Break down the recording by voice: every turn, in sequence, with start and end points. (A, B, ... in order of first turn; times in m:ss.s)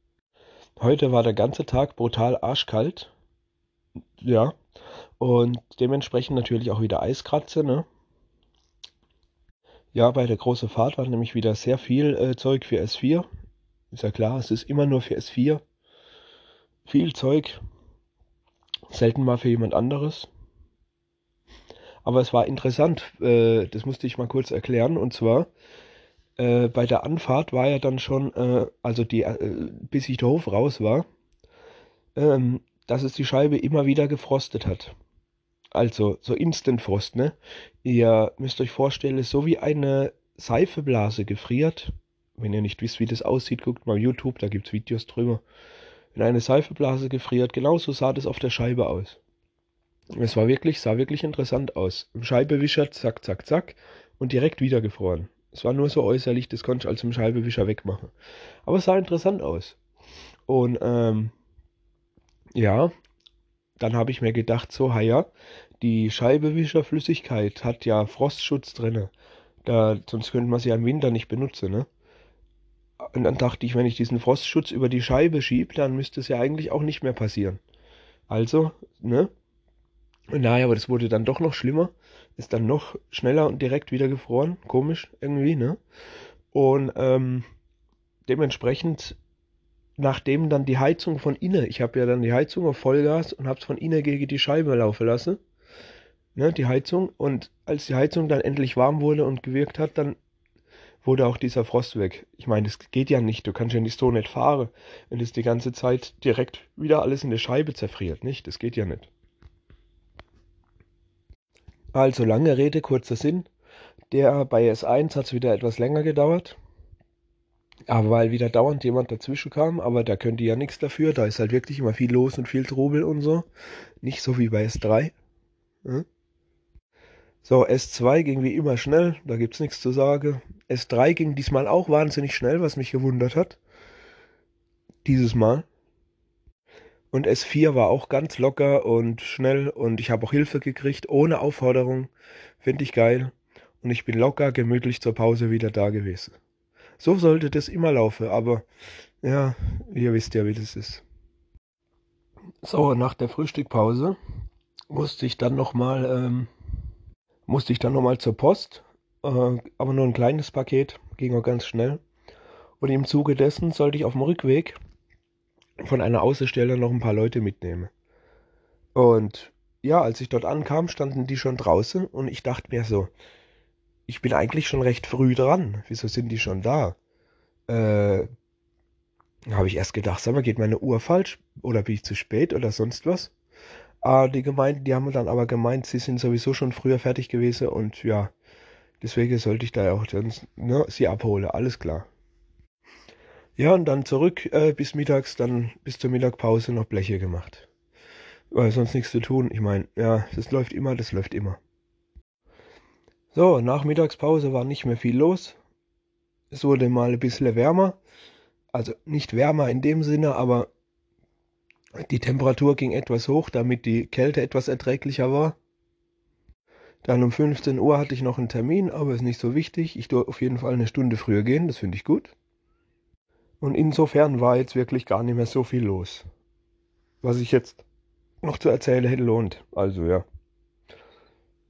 0:00.8-0:03.1 A
0:04.2-0:04.6 A
0:05.2-0:07.8 A
0:09.9-0:13.3 A
0:13.9-0:15.6 A
0:16.8-0:17.6 A
0:18.9-0:20.3 A
0:22.0-0:25.5 A
0:26.4-0:31.0 A
0:32.2-0:34.9 A
0:35.7-0:45.4 A
0:46.1-0:49.2 A
0:50.2-0:58.1 A
0:58.6-0:59.8 A
1:00.5-1:01.3 A
1:02.5-1:02.9 A
1:03.8-1:05.3 A
1:05.8-1:09.1 A
1:09.6-1:11.9 A
1:13.1-1:17.6 A
1:18.3-1:19.3 A
1:20.3-1:25.8 A
1:26.5-1:27.4 A
1:28.3-1:29.2 A
1:30.0-1:35.4 A
1:36.3-1:40.2 A
1:41.0-1:49.1 A
1:51.9-1:53.5 A
1:54.1-1:56.6 A
1:57.9-2:03.4 A
2:04.0-2:05.1 A
2:07.4-2:13.6 A
2:15.0-2:15.6 A
2:17.1-2:26.4 A
2:27.0-2:28.6 A
2:29.2-2:31.0 A
2:32.6-2:34.2 A
2:34.9-2:36.5 A
2:37.5-2:42.0 A
2:42.8-2:44.8 A
2:45.8-2:47.9 A
2:48.9-2:53.1 A
2:54.1-2:57.0 A
2:57.7-2:58.3 A
2:59.5-3:03.3 A
3:04.0-3:08.3 A
3:09.0-3:12.1 A
3:13.6-3:17.7 A
3:18.5-3:21.6 A
3:23.3-3:25.6 A
3:26.5-3:28.0 A
3:28.7-3:30.7 A
3:32.0-3:35.6 A
3:37.0-3:42.3 A
3:43.6-3:46.2 A
3:47.2-3:47.8 A
3:48.4-3:50.2 A